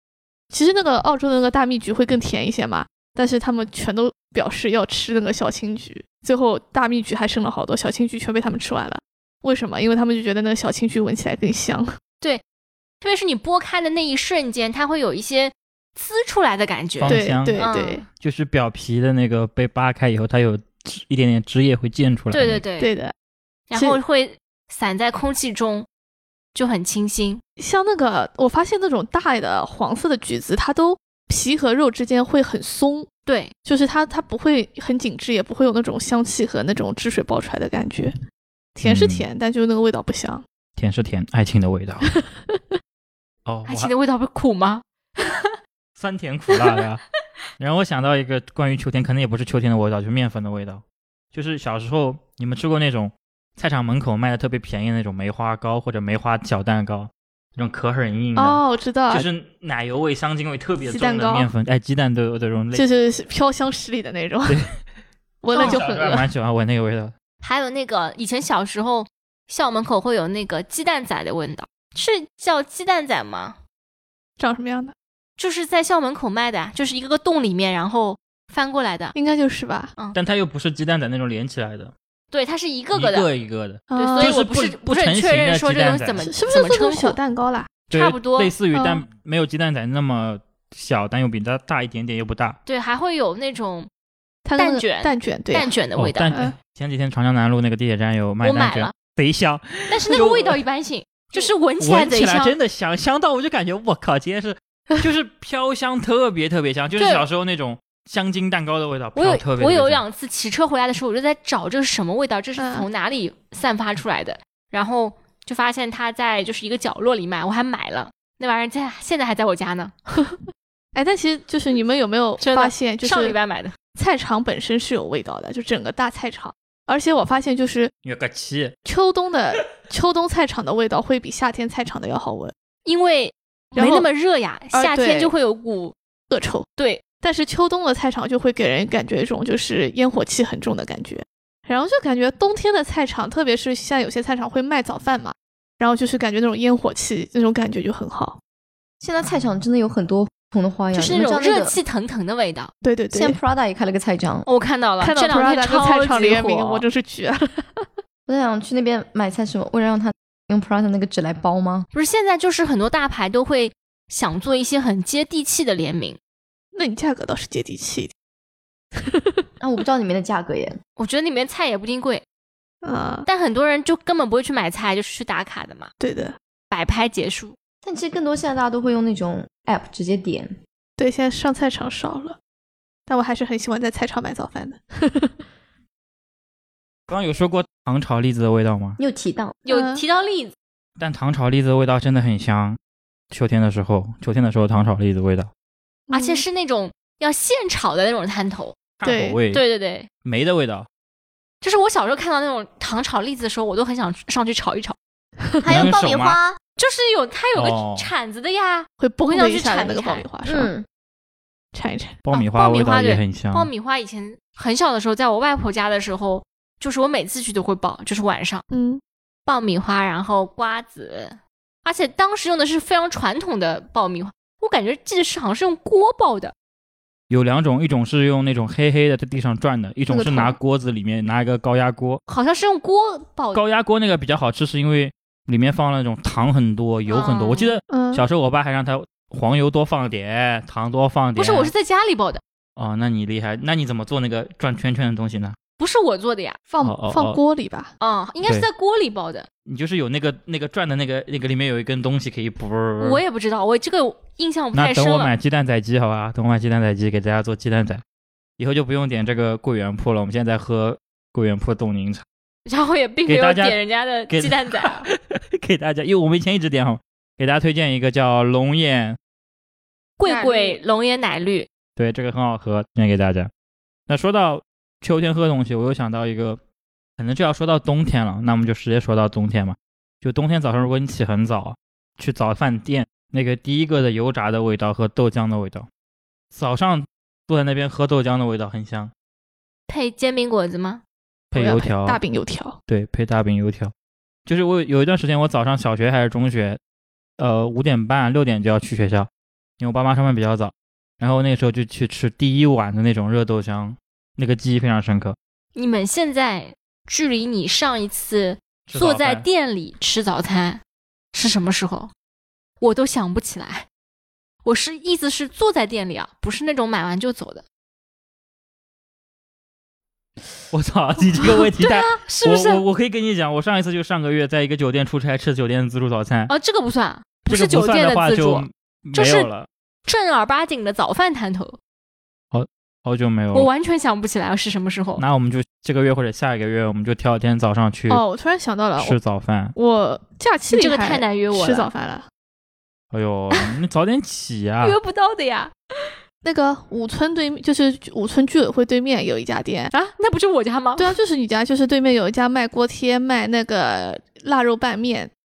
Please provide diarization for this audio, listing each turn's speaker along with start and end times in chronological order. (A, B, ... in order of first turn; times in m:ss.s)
0:00.5-0:11.9 A
0:13.0-0:18.0 B
0:17.0-0:22.6 C
0:17.0-0:18.0 A
0:22.3-0:22.9 B
0:22.8-0:23.1 A
0:23.7-0:25.9 B
0:23.7-0:24.0 A
0:26.5-0:27.4 B
0:27.6-0:33.1 A
0:33.2-0:33.5 B
0:33.6-0:38.1 A
0:38.7-0:40.4 A
0:38.8-0:39.2 C
0:40.8-0:42.1 C
0:42.2-0:42.6 A
0:43.4-0:43.9 C
0:43.7-0:45.5 B
0:46.0-0:47.0 C
0:47.6-1:02.8 C
0:58.4-0:59.3 A
1:00.8-1:01.5 A
1:02.7-1:04.6 A
1:05.4-1:06.3 A
1:05.5-1:05.8 B
1:05.6-1:07.1 C
1:07.4-1:13.6 B
1:14.4-1:14.9 A
1:15.4-1:19.1 B
1:19.1-1:19.9 A
1:20.1-1:21.9 C
1:22.3-1:23.3 B
1:22.9-1:26.2 C
1:23.9-1:24.4 A
1:23.9-1:27.2 B
1:26.2-1:27.7 A
1:27.9-1:28.5 B
1:27.9-1:32.6 C
1:28.7-1:29.0 A
1:32.6-1:33.9 B
1:34.4-1:35.7 A
1:34.5-1:36.3 B
1:36.0-1:40.6 C
1:38.4-1:38.9 B
1:39.9-1:42.6 B
1:41.4-1:50.0 C
1:47.0-1:47.2 B
1:49.1-1:59.9 B
1:52.6-1:52.9 A
2:00.9-2:03.4 A
2:02.4-2:03.8 B
2:03.9-2:07.9 A
2:08.0-2:08.7 C
2:08.8-2:12.5 A
2:12.8-2:15.9 B
2:13.8-2:14.1 A
2:14.7-2:15.3 A
2:16.3-2:16.7 A
2:16.8-2:17.0 B
2:17.2-2:28.4 A
2:29.0-2:31.8 D
2:30.9-2:32.7 B
2:32.8-2:33.4 A
2:33.1-2:34.4 D
2:34.4-2:36.8 B
2:35.0-2:38.0 A
2:38.3-2:41.9 D
2:41.9-2:46.2 B
2:46.7-2:48.1 A
2:49.0-2:49.4 A
2:49.6-2:50.8 D
2:51.0-2:52.2 B
2:52.8-2:53.3 A
2:53.2-2:55.9 B
2:56.0-2:56.3 A
2:56.7-2:57.5 B
2:57.8-3:00.6 D
3:01.0-3:02.4 A
3:03.1-3:05.4 A
3:07.1-3:09.0 C
3:09.0-3:09.6 D
3:09.6-3:10.5 B
3:09.7-3:10.0 A
3:11.0-3:12.8 C
3:13.3-3:15.5 C
3:16.1-3:16.4 A
3:16.1-3:18.8 B
3:19.0-3:19.6 C
3:19.0-3:19.4 A
3:19.5-3:20.1 B
3:20.2-3:20.9 C
3:21.6-3:25.0 B
3:25.6-3:26.6 D
3:25.7-3:26.4 C
3:26.8-3:30.2 B
3:27.5-3:28.1 C
3:29.0-3:30.7 A
3:30.4-3:30.8 D
3:31.7-3:32.2 A
3:32.2-3:33.7 C
3:32.3-3:38.6 B
3:38.7-3:39.0 A
3:39.4-3:46.5 B
3:47.3-3:52.2 C
3:50.1-3:50.5 D
3:52.3-3:53.6 B
3:53.5-4:01.7 C
3:57.1-3:57.7 B
3:57.9-3:58.2 A
4:01.4-4:02.4 B
4:02.8-4:05.6 C
4:05.8-4:06.6 B
4:06.7-4:07.9 A
4:06.8-4:07.4 C
4:08.0-4:09.5 B
4:09.6-4:13.2 C
4:13.0-4:15.3 B
4:14.7-4:18.0 C
4:18.6-4:22.2 C
4:22.6-4:25.1 B
4:23.2-4:29.2 C
4:30.2-4:31.7 B
4:30.2-4:30.8 A
4:32.0-4:33.5 C
4:34.1-4:36.6 C
4:37.2-4:45.9 C
4:46.5-4:49.1 C
4:49.9-4:51.0 B
4:51.5-4:52.2 C
4:51.5-4:52.8 A
4:52.9-4:53.9 C
4:54.4-4:56.8 C
4:57.4-5:05.4 C
5:05.7-5:10.8 B
5:08.9-5:09.4 C
5:11.3-5:12.1 B
5:12.8-5:13.9 B
5:14.6-5:17.6 B
5:20.7-5:26.5 C
5:21.4-5:22.8 B
5:26.5-5:29.5 B
5:27.5-5:29.7 C
5:30.0-5:31.8 B
5:32.5-5:33.7 C
5:33.5-5:35.2 B
5:35.2-5:38.2 C
5:38.1-5:39.2 A
5:39.0-5:39.7 C
5:39.8-5:42.3 A
5:40.7-5:41.9 B
5:43.1-5:45.0 C
5:44.8-5:46.1 B
5:46.4-5:49.9 A
5:49.9-5:51.2 B
5:51.0-5:55.3 A